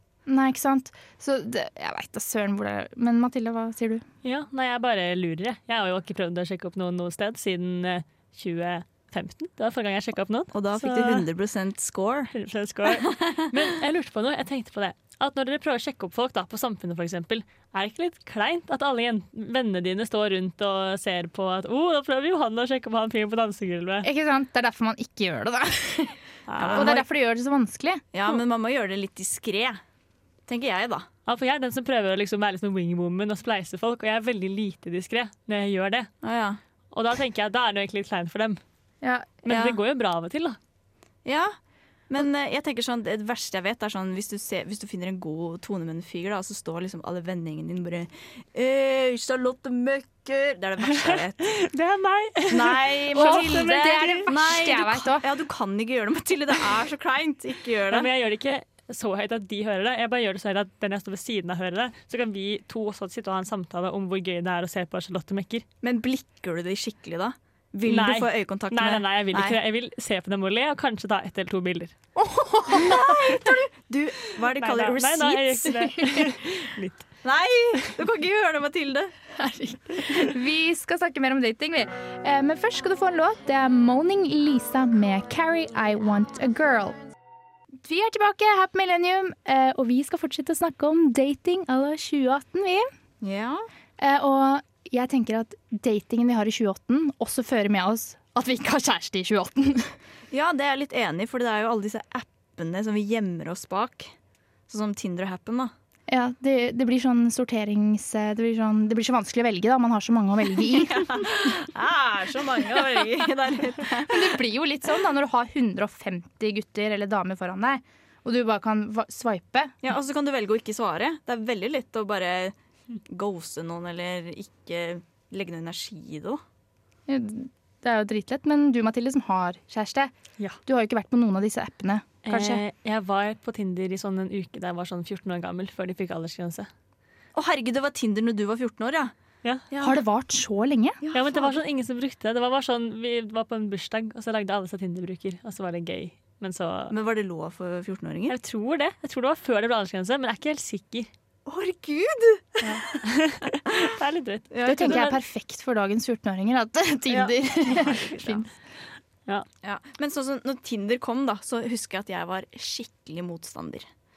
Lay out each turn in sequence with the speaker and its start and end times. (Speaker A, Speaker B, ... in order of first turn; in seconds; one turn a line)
Speaker A: 0.3-4.0
Speaker B: 4.2-11.3
Speaker C: 10.5-12.3
Speaker B: 12.3-24.1
Speaker C: 12.9-13.4
Speaker A: 24.0-26.2
Speaker B: 26.5-27.0
Speaker C: 26.6-27.1
Speaker A: 26.7-28.1
Speaker C: 28.1-29.8
Speaker C: 30.5-31.1
Speaker B: 31.3-36.1
Speaker C: 36.2-36.6
Speaker B: 36.9-38.6
Speaker A: 39.0-39.3
Speaker B: 39.4-40.6
Speaker C: 39.5-39.8
Speaker C: 41.2-41.5
Speaker C: 42.1-51.5
Speaker B: 50.9-54.2
Speaker C: 52.5-58.1
Speaker A: 53.1-55.3
Speaker B: 57.9-65.7
Speaker C: 65.8-69.6
Speaker B: 67.8-72.0
Speaker A: 72.2-73.1
Speaker C: 72.7-75.7
Speaker B: 74.5-77.0
Speaker C: 77.2-79.1
Speaker A: 79.4-87.0
Speaker A: 87.8-92.9
Speaker C: 93.2-93.7
Speaker A: 94.0-100.0
Speaker C: 100.3-104.1
Speaker C: 104.7-105.7
Speaker A: 106.1-111.3
Speaker C: 110.9-114.3
Speaker A: 114.0-119.8
Speaker C: 119.8-122.5
Speaker C: 123.1-126.4
Speaker A: 127.1-130.1
Speaker A: 130.7-132.6
Speaker B: 132.3-136.7
Speaker C: 137.3-139.1
Speaker C: 139.7-140.0
Speaker A: 139.8-141.0
Speaker C: 141.0-141.6
Speaker B: 141.1-146.9
Speaker C: 146.9-148.3
Speaker B: 148.3-151.1
Speaker C: 151.5-152.8
Speaker B: 152.6-155.2
Speaker C: 154.5-155.1
Speaker A: 154.7-158.5
Speaker C: 157.1-158.4
Speaker C: 159.6-163.9